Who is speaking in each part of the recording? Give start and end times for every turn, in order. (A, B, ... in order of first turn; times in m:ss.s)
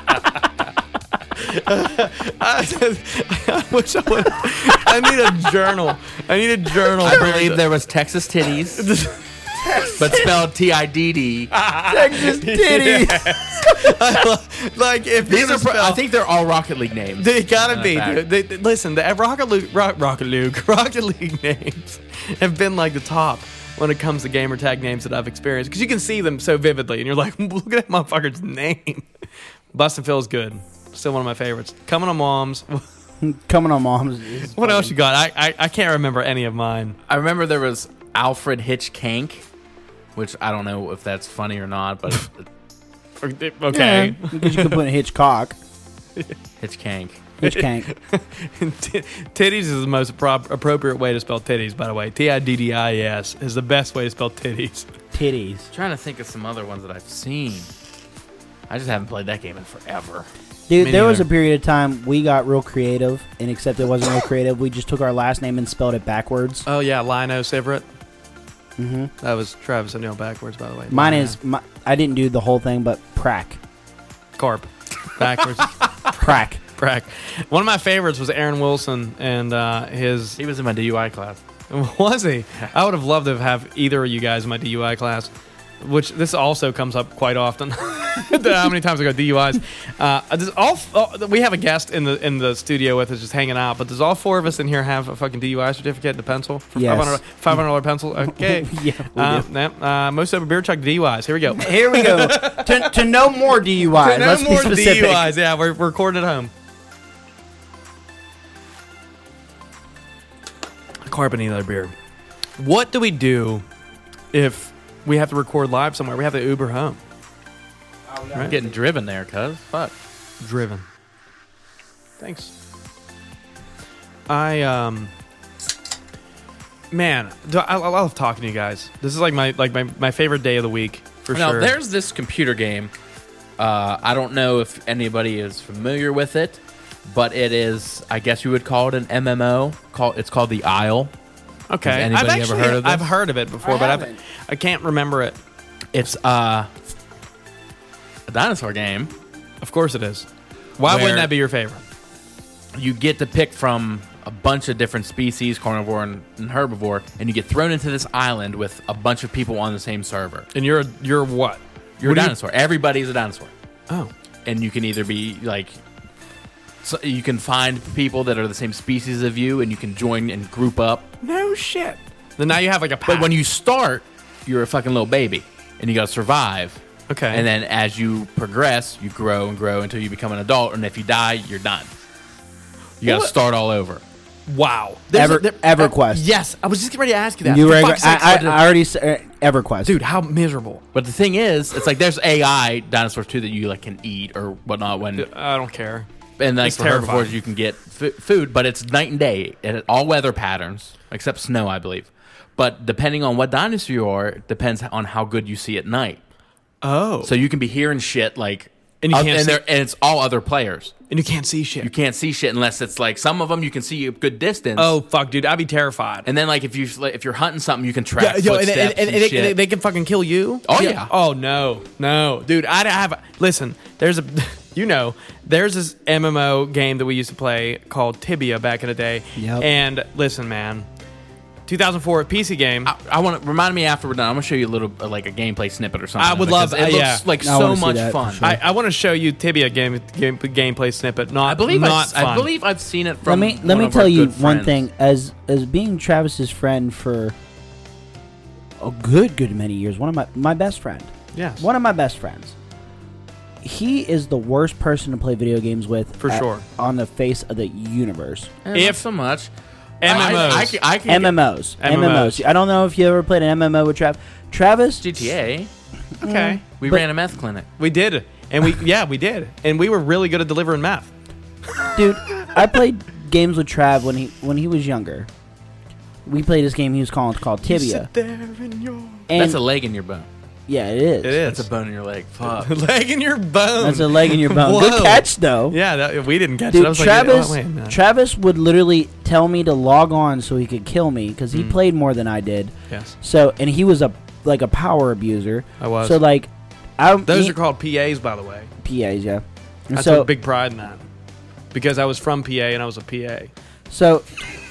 0:01.4-0:07.6 A
0:07.0-0:08.9 B
0:08.8-0:10.2 A
0:10.0-0:11.5 B
0:11.5-0:16.0 A
0:11.9-0:14.0 C
0:15.3-0:18.2 B
0:17.2-0:29.1 A
0:29.7-0:32.8 A
0:33.2-0:34.9 C
0:34.6-0:37.0 A
0:37.1-0:39.4 B
0:40.2-0:42.4 B
0:43.2-0:44.8 A
0:43.7-0:45.6 C
0:46.6-0:47.2 B
0:47.4-0:47.9 C
0:47.4-0:54.9 A
0:55.1-0:55.7 C
0:55.7-0:57.7 B
0:58.7-1:00.3 B
1:00.7-1:06.6 C
1:00.8-1:01.3 A
1:06.7-1:07.8 A
1:08.8-1:09.1 C
1:09.2-1:11.4 A
1:10.9-1:13.6 C
1:14.4-1:20.4 A
1:16.2-1:16.6 C
1:20.4-1:21.4 B
1:21.7-1:43.0 A
1:36.8-1:37.6 C
1:38.2-1:39.5 C
1:41.5-1:45.3 C
1:43.9-1:46.5 A
1:51.1-1:51.9 A
1:52.6-1:53.6 A
1:54.3-1:57.0 A
1:58.1-1:58.8 C
1:58.4-1:59.9 B
2:00.4-2:00.8 A
2:02.2-2:02.5 A
2:04.3-2:05.1 A
2:06.9-2:11.8 A
2:11.3-2:12.9 B
2:13.6-2:21.1 B
2:21.7-2:25.4 A
2:21.8-2:23.1 B
2:23.6-2:24.2 C
2:25.9-2:26.7 B
2:28.3-2:29.1 B
2:29.6-2:31.8 A
2:30.9-2:31.3 B
2:32.8-2:40.5 B
2:40.5-2:42.4 A
2:42.0-2:43.5 B
2:44.5-2:45.8 B
2:46.8-2:51.1 B
2:51.2-2:53.3 A
2:53.1-3:01.9 B
2:57.1-2:57.4 A
3:03.0-3:04.0 B
3:03.0-3:03.3 A
3:04.5-3:08.6 A
3:05.1-3:06.2 C
3:07.4-3:10.0 C
3:09.8-3:10.8 A
3:10.9-3:15.3 B
3:15.2-3:16.1 A
3:16.4-3:26.2 B
3:16.6-3:17.4 A
3:26.8-3:27.3 A
3:27.2-3:31.0 B
3:29.0-3:29.6 A
3:31.1-3:31.9 A
3:31.8-3:35.0 B
3:34.8-3:36.3 A
3:36.2-3:39.6 B
3:38.2-3:50.9 A
3:40.6-3:41.1 B
3:49.4-3:49.7 C
3:51.7-3:52.9 A
3:52.9-3:58.6 B
3:56.2-3:57.2 A
3:57.4-3:58.6 C
3:58.4-4:02.5 A
4:01.4-4:04.8 B
4:03.2-4:07.4 C
4:08.8-4:12.5 C
4:11.3-4:11.7 A
4:13.6-4:18.6 C
4:16.2-4:16.7 A
4:18.6-4:19.5 B
4:18.7-4:19.0 A
4:20.0-4:20.8 A
4:20.0-4:21.4 B
4:21.1-4:25.0 C
4:21.8-4:22.4 A
4:25.0-4:25.7 B
4:26.2-4:27.0 C
4:26.2-4:26.6 A
4:26.8-4:27.7 B
4:27.8-4:31.1 A
4:31.8-4:32.5 A
4:32.0-4:35.3 C
4:36.3-4:38.1 C
4:37.7-4:39.3 A
4:39.3-4:39.6 C
4:39.3-4:40.3 B
4:40.7-4:41.4 C
4:41.2-4:41.7 A
4:41.4-4:42.7 B
4:42.5-4:48.0 A
4:43.8-4:45.8 C
4:46.7-4:57.6 C
4:51.5-4:51.8 A
4:55.8-4:56.2 A
4:57.3-4:58.7 A
4:58.8-5:00.3 C
4:59.9-5:01.1 A
5:01.7-5:03.5 A
5:03.9-5:04.3 C